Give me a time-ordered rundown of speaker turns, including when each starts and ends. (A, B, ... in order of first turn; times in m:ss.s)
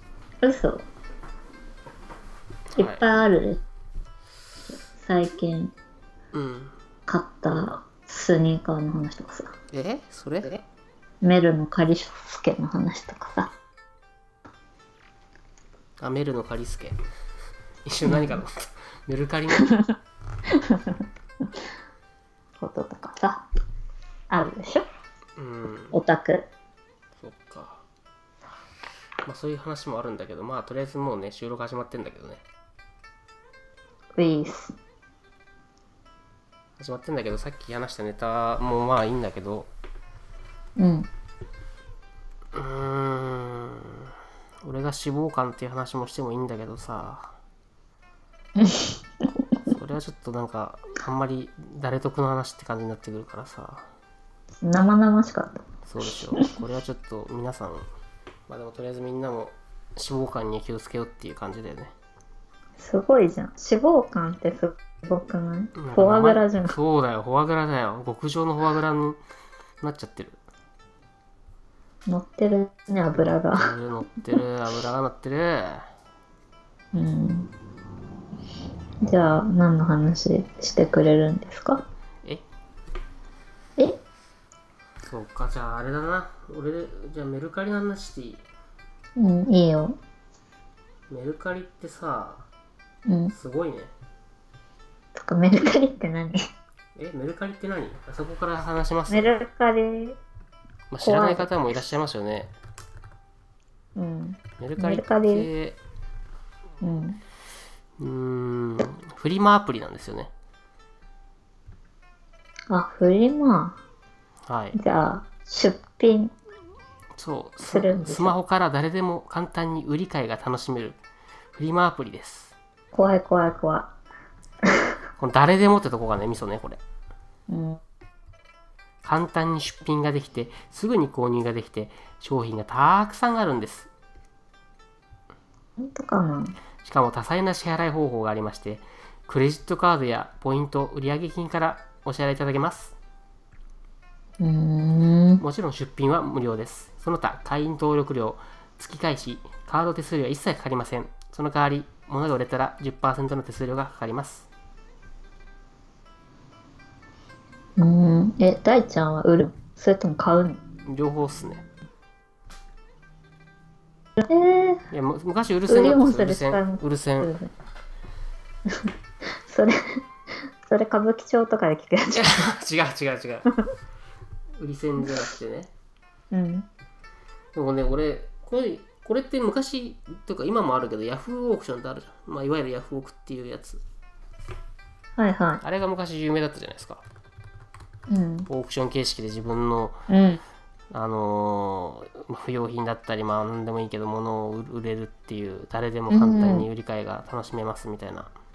0:00.4-0:00.9 A
0:02.8-0:03.0 B
0:02.8-0:03.6 A
0:05.0-0:05.7 A
0:06.3-0:06.8 B
0:07.1-0:09.5 A
0:09.7-0:10.6 B
0:11.2-0:13.5 A
0:16.0-0:17.0 B
0:17.8-0:19.7 B
0:18.1-0:18.4 A
0:19.6-0:19.9 A
0:20.5-0:21.0 A
0:22.6-0:23.4 A
0:24.3-0:24.8 A
0:25.4-0:26.0 B
0:25.9-0:26.5 A
0:27.2-0:27.8 B
0:29.2-0:32.4 B
0:34.2-0:34.8 A
0:36.8-0:39.7 B
0:40.8-0:41.1 A
0:42.5-0:47.4 B
0:48.6-0:49.0 A
0:49.7-0:53.9 B
0:54.6-0:56.5 A
0:55.8-0:57.9 B
0:58.5-1:01.9 B
1:02.8-1:06.8 A
1:05.8-1:09.2 B
1:09.8-1:10.4 B
1:12.1-1:13.7 A
1:13.6-1:15.9 B
1:16.9-1:17.5 A
1:19.0-1:21.8 A
1:25.1-1:28.4 B
1:29.2-1:30.0 A
1:31.1-1:32.5 B
1:33.1-1:33.3 A
1:33.3-1:33.9 B
1:35.2-1:36.5 A
1:37.0-1:39.4 B
1:39.1-1:40.2 A
1:40.9-1:42.5 B
1:41.0-1:41.5 A
1:44.0-1:45.5 A
1:44.6-1:45.8 B
1:46.8-1:47.2 A
1:48.0-1:50.3 B
1:52.7-1:53.8 A
1:54.5-1:54.8 B
1:54.7-1:56.3 A
1:57.2-2:01.0 B
1:57.7-1:58.4 A
2:01.5-2:02.6 B
2:02.9-2:03.9 A
2:05.2-2:06.8 B
2:07.5-2:07.8 A
2:09.0-2:13.9 B
2:15.8-2:16.6 A
2:16.8-2:23.0 B
2:24.4-2:25.4 A
2:25.4-2:34.5 B
2:37.8-2:40.6 A
2:40.9-2:41.7 B
2:44.2-2:44.8 A
2:44.9-2:47.3 B
2:45.7-2:47.5 A
2:49.4-2:52.3 A
2:52.1-2:53.5 B
2:54.6-2:55.7 B
2:56.3-2:56.7 A
2:57.5-3:03.8 B
3:05.2-3:05.6 A
3:05.6-3:07.0 B
3:08.1-3:08.5 A
3:08.5-3:10.0 B
3:10.1-3:10.4 A
3:10.9-3:18.3 B
3:16.1-3:16.7 A